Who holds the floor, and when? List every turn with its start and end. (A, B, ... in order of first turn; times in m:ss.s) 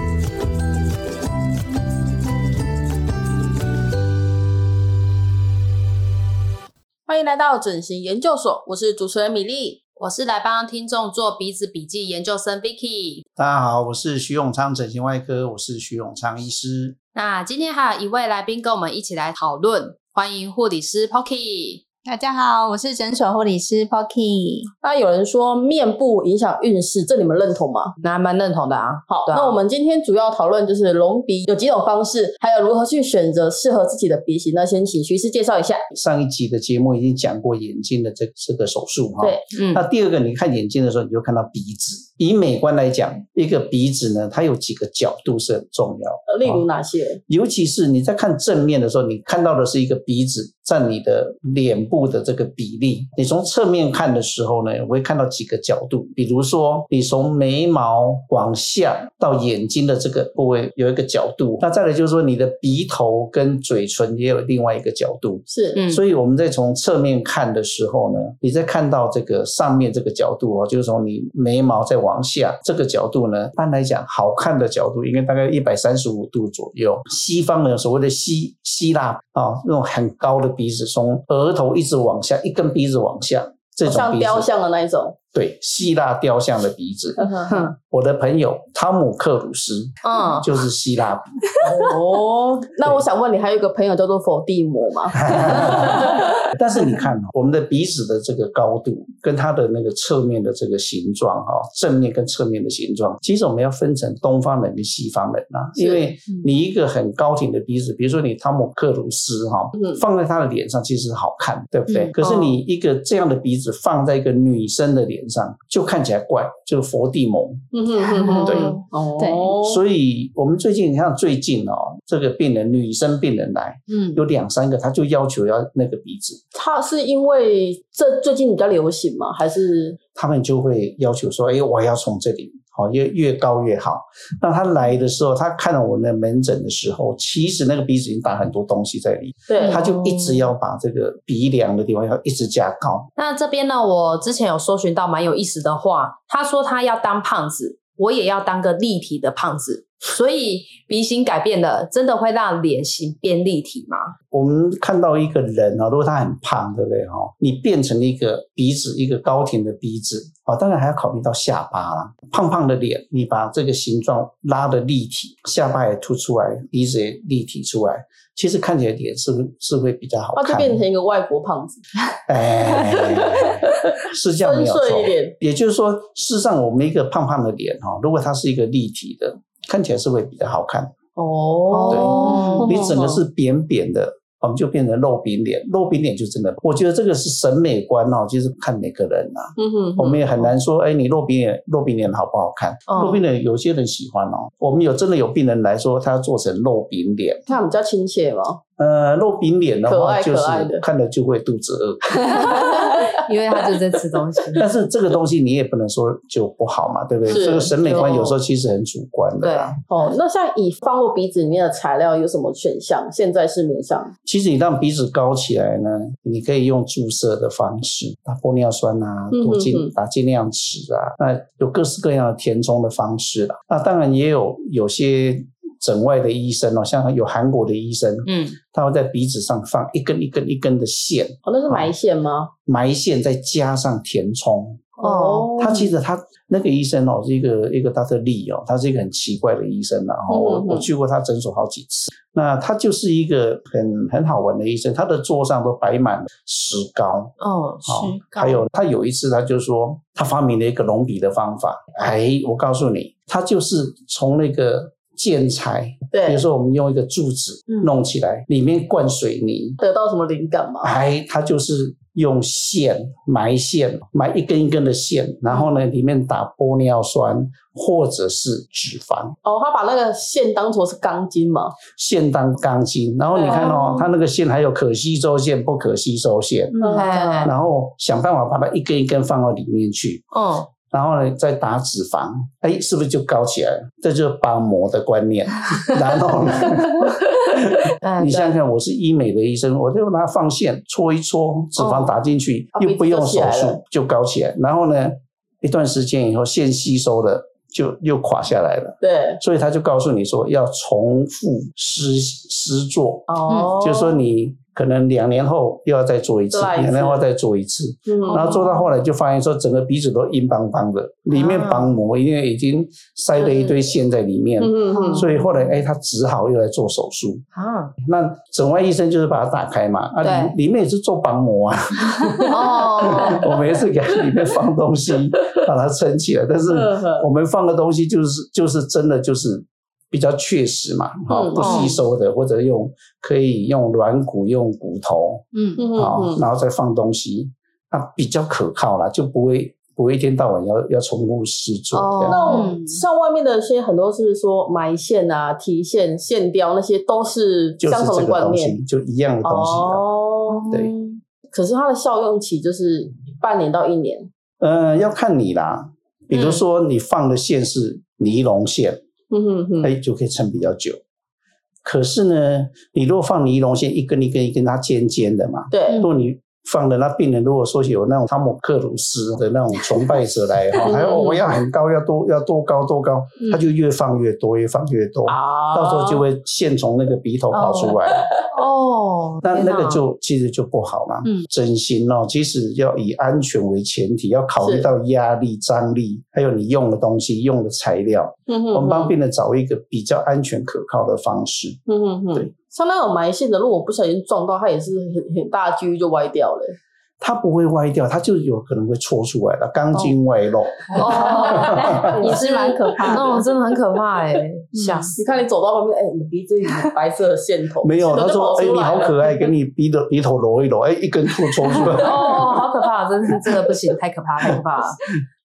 0:07.1-0:09.8 A
0:10.0-0:13.2 B
0:13.4-0:17.0 C
0:17.1-0:21.8 B
0:22.0-0:24.7 D
0:24.8-0:27.9 A
0:28.0-0:29.6 B
0:29.1-0:35.8 A
0:35.9-0:46.6 C
0:39.5-0:39.8 B
0:46.3-0:47.2 A
0:47.3-1:24.5 C
1:05.5-1:05.8 A
1:05.7-1:06.0 B
1:23.8-1:25.2 A
1:25.3-1:31.4 C
1:27.2-1:27.6 A
1:30.0-1:30.5 B
1:31.6-1:36.2 A
1:35.1-1:57.7 C
1:45.8-1:46.1 A
1:49.8-1:50.0 A
1:51.9-1:52.1 D
1:52.2-1:52.6 B
1:57.7-1:59.8 A
1:58.0-1:59.6 D
1:58.3-1:58.8 C
1:59.6-2:06.4 C
2:06.5-2:10.0 A
2:10.1-2:23.1 C
2:19.5-2:19.8 A
2:19.6-2:20.4 B
2:23.2-2:34.1 B
2:34.3-2:50.8 C
2:50.3-2:51.8 A
2:52.3-3:01.0 C
2:52.8-2:55.3 A
3:01.2-3:03.2 A
3:01.7-3:02.7 B
3:01.9-3:17.4 C
3:02.2-3:02.6 D
3:09.6-3:10.4 A
3:12.9-3:13.2 B
3:17.5-3:18.6 A
3:18.8-3:22.5 C
3:19.8-3:20.8 A
3:22.2-3:23.1 A
3:22.5-3:24.6 B
3:24.6-3:29.8 C
3:27.3-3:28.2 A
3:27.3-3:28.4 B
3:29.4-3:29.7 B
3:29.9-3:34.1 A
3:34.2-3:51.9 C
3:39.3-3:39.9 A
3:48.2-3:48.6 B
3:51.4-3:52.5 A
3:52.6-3:55.0 C
3:55.0-3:55.9 A
3:55.0-3:55.6 B
3:55.6-4:19.8 C
4:00.3-4:00.9 A
4:07.4-4:08.0 B
4:07.9-4:08.6 D
4:16.1-4:16.4 A
4:19.8-4:20.9 A
4:20.8-4:29.3 C
4:29.4-4:31.8 A
4:31.9-4:36.7 C
4:33.3-4:33.9 A
4:33.5-4:34.0 B
4:36.7-4:37.1 D
4:36.8-4:37.5 A
4:36.9-4:37.5 B
4:37.4-4:40.2 C
4:40.3-4:40.7 B
4:40.9-5:17.4 C
4:48.0-4:48.6 B
4:51.8-4:52.1 B
4:52.7-4:53.8 A
4:59.0-4:59.4 A
5:03.3-5:04.2 A
5:03.5-5:03.7 B
5:06.5-5:07.2 A
5:08.1-5:08.6 A
5:08.3-5:08.6 B
5:11.3-5:12.0 B
5:13.4-5:13.7 B
5:14.6-5:15.2 A
5:14.9-5:15.2 B
5:15.0-5:15.4 D
5:17.5-5:17.9 B
5:18.0-5:42.4 C
5:20.2-5:20.5 B
5:22.5-5:23.4 B
5:26.7-5:27.3 A
5:31.3-5:31.9 A
5:31.6-5:32.0 B
5:35.5-5:35.9 D
5:35.8-5:36.4 A
5:41.9-5:42.7 B
5:42.3-5:48.8 A
5:42.5-5:43.0 D
5:47.8-5:50.0 C
5:49.4-5:54.3 A
5:54.6-5:59.0 C
5:56.3-5:56.6 B
5:59.3-5:59.9 A
5:59.8-6:01.0 C
6:01.8-6:18.3 C
6:05.7-6:06.1 A
6:10.8-6:11.4 B
6:15.3-6:16.2 A
6:17.5-6:20.0 B
6:19.4-6:31.8 C
6:24.6-6:24.9 A
6:28.5-6:29.1 A
6:31.9-6:36.8 A
6:37.2-6:42.2 C
6:40.9-6:45.1 B
6:41.1-6:43.4 D
6:41.8-6:42.1 A
6:44.8-6:45.1 D
6:45.1-6:49.5 A
6:47.8-6:52.6 C
6:51.9-6:55.1 B